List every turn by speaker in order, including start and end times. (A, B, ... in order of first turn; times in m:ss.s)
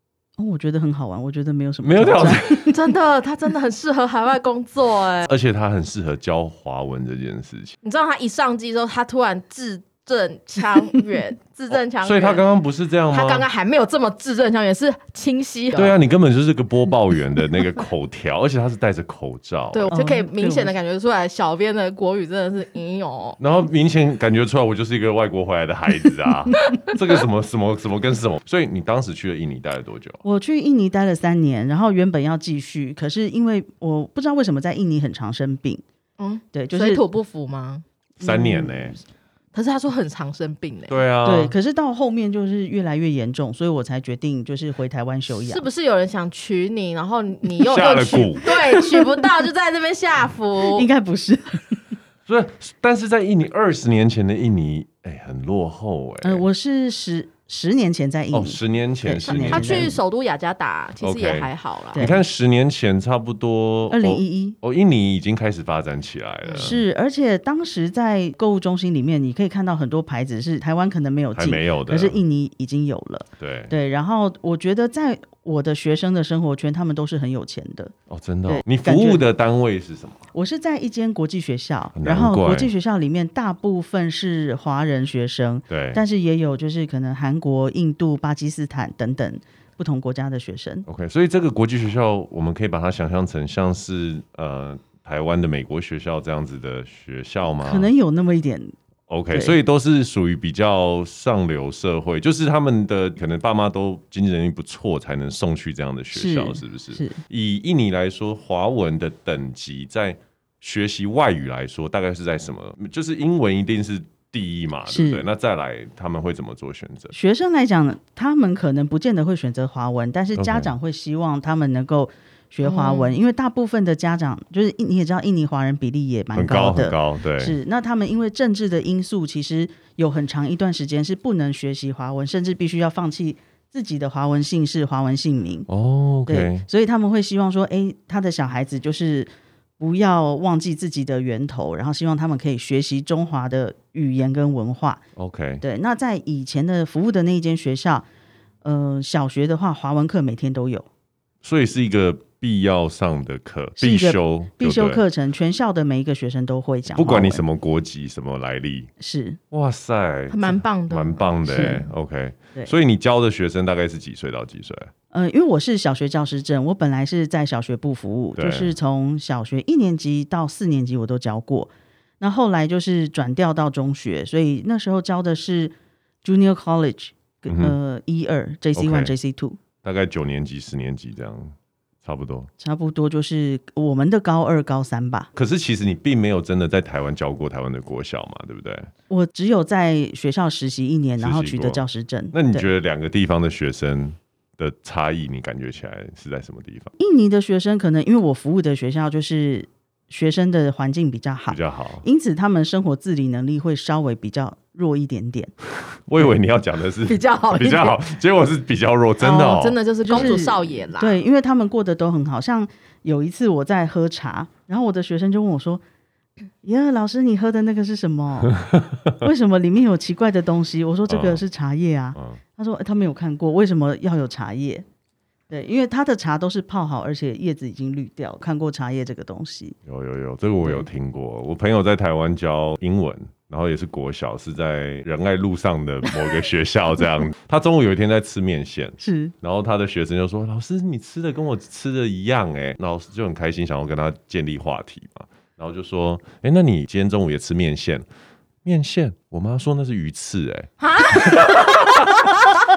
0:00.4-0:02.8 A
0:01.8-0:02.7 B
0:02.7-0:05.3 C
0:05.3-0:07.7 B
0:07.8-0:12.5 C
0:11.7-0:13.5 B
0:13.1-0:16.0 C
0:15.7-0:19.9 B
0:19.7-0:23.4 C
0:19.9-0:20.8 A
0:23.4-0:30.2 B
0:30.2-0:35.8 A
0:36.2-0:37.8 C
0:36.5-0:37.0 A
0:38.2-0:39.0 B
0:38.2-0:39.0 A
0:39.5-0:41.0 C
0:40.9-0:41.5 B
0:41.2-0:45.7 A
0:45.3-0:50.9 C
0:47.6-0:48.5 B
0:48.5-0:49.2 A
0:50.7-0:51.8 A
0:52.3-0:56.5 B
0:56.2-1:00.0 A
0:58.3-1:00.0 B
0:59.3-1:02.1 C
1:01.0-1:06.8 B
1:01.9-1:02.2 A
1:03.9-1:04.6 A
1:06.4-1:06.7 C
1:06.6-1:17.9 A
1:11.4-1:12.2 B
1:13.4-1:13.7 B
1:18.1-1:20.2 B
1:18.5-1:19.2 A
1:20.3-1:30.9 A
1:22.0-1:22.7 B
1:25.7-1:26.0 B
1:30.9-1:37.9 B
1:37.6-1:38.8 A
1:39.1-1:57.1 B
1:39.3-1:39.6 A
1:46.1-1:47.2 A
1:54.9-1:55.2 A
1:57.1-2:15.7 A
2:00.4-2:00.7 B
2:02.6-2:03.2 C
2:06.3-2:07.6 B
2:15.7-2:16.7 B
2:16.3-2:25.0 A
2:25.2-2:25.6 B
2:25.6-2:28.1 A
2:28.6-2:30.9 A
2:31.4-2:35.0 B
2:33.8-2:37.4 A
2:36.9-2:38.9 B
2:39.0-2:39.4 A
2:39.5-2:44.9 B
2:40.3-2:41.7 C
2:41.5-2:41.8 A
2:45.1-2:59.6 A
2:48.4-2:48.7 B
2:57.5-2:57.8 B
2:58.8-2:59.1 B
2:59.8-3:02.5 B
3:02.6-3:05.3 A
3:05.4-3:08.9 B
3:09.1-3:12.7 A
3:11.2-3:16.9 B
3:17.0-3:25.5 A
3:21.5-3:22.0 B
3:25.8-3:30.4 B
3:27.1-3:28.0 C
3:29.2-3:31.2 C
3:30.0-3:35.8 A
3:36.6-3:38.6 A
3:39.2-3:44.8 A
3:41.1-3:41.4 B
3:42.2-3:42.4 B
3:45.5-3:49.8 A
3:49.9-4:08.0 B
3:59.0-3:59.3 A
4:08.6-4:12.4 B
4:10.8-4:12.5 C